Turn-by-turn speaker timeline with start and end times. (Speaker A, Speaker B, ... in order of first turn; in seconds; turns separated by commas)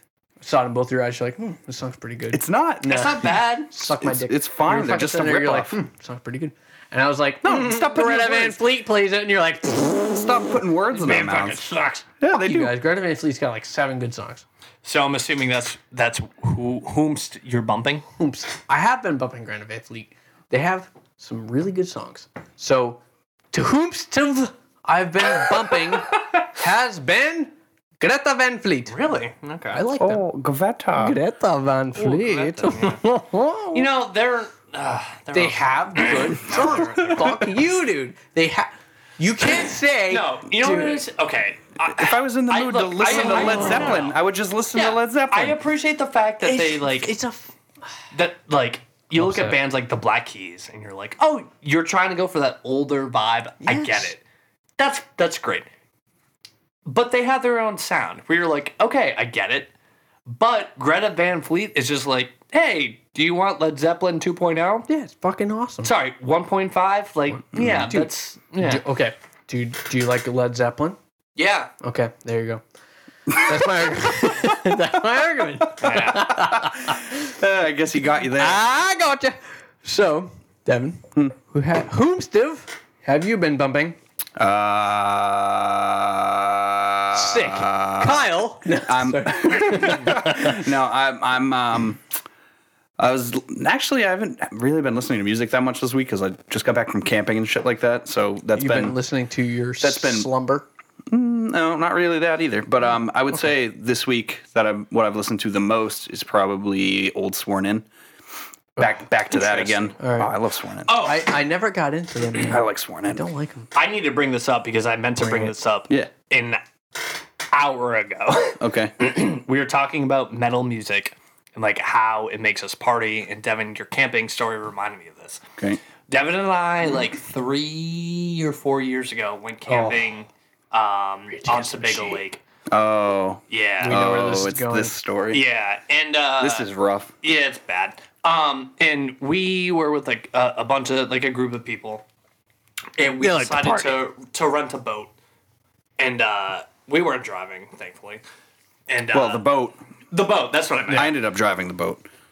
Speaker A: 0.4-10.2, Speaker B: 2.3-3.2, Speaker C: 2.9-3.7, Speaker B: 3.8-5.8, Speaker B: 7.4-8.6, Speaker B: 10.1-12.7, Speaker C: 10.9-12.1, Speaker A: 12.3-14.4, Speaker C: 14.8-18.0, Speaker A: 18.2-23.0, Speaker A: 23.5-29.1, Speaker C: 28.9-29.9, Speaker A: 29.7-30.2, Speaker B: 30.0-31.2, Speaker A: 31.0-33.9, Speaker C: 31.9-33.0, Speaker C: 33.7-37.3, Speaker A: 35.3-41.0, Speaker C: 40.1-44.2, Speaker B: 41.9-45.6, Speaker A: 43.1-44.0, Speaker C: 44.7-47.2, Speaker A: 46.4-47.5, Speaker C: 48.1-54.2, Speaker A: 49.1-49.6, Speaker A: 53.6-54.1, Speaker C: 54.8-55.7, Speaker C: 56.9-59.7, Speaker C: 60.3-64.9, Speaker A: 64.9-65.9, Speaker C: 65.8-68.8, Speaker A: 67.4-71.0, Speaker B: 67.5-67.9, Speaker C: 71.4-71.7, Speaker A: 71.8-72.6, Speaker A: 73.3-77.1, Speaker C: 75.8-76.3, Speaker B: 76.3-78.6, Speaker A: 78.4-84.0, Speaker B: 84.4-88.3, Speaker A: 87.1-90.7, Speaker B: 88.9-92.0, Speaker B: 93.0-99.0, Speaker A: 98.5-100.7, Speaker B: 99.8-100.3, Speaker B: 101.1-107.9, Speaker B: 108.8-111.0, Speaker C: 109.3-110.0, Speaker A: 110.0-110.4, Speaker C: 110.9-111.2, Speaker A: 111.0-113.7, Speaker B: 112.4-113.2, Speaker C: 113.7-116.6, Speaker A: 115.2-115.5, Speaker C: 117.5-125.4, Speaker B: 118.6-118.9, Speaker C: 126.1-132.4, Speaker A: 129.7-130.0, Speaker A: 131.3-132.2, Speaker B: 132.7-135.4, Speaker C: 133.5-134.0, Speaker A: 133.8-134.9, Speaker C: 135.3-136.7, Speaker B: 136.4-137.1, Speaker C: 137.2-142.1, Speaker C: 143.0-145.1, Speaker A: 143.2-144.0, Speaker C: 146.0-148.2, Speaker C: 148.9-149.4, Speaker B: 149.1-149.8, Speaker C: 150.1-151.1, Speaker B: 150.9-152.1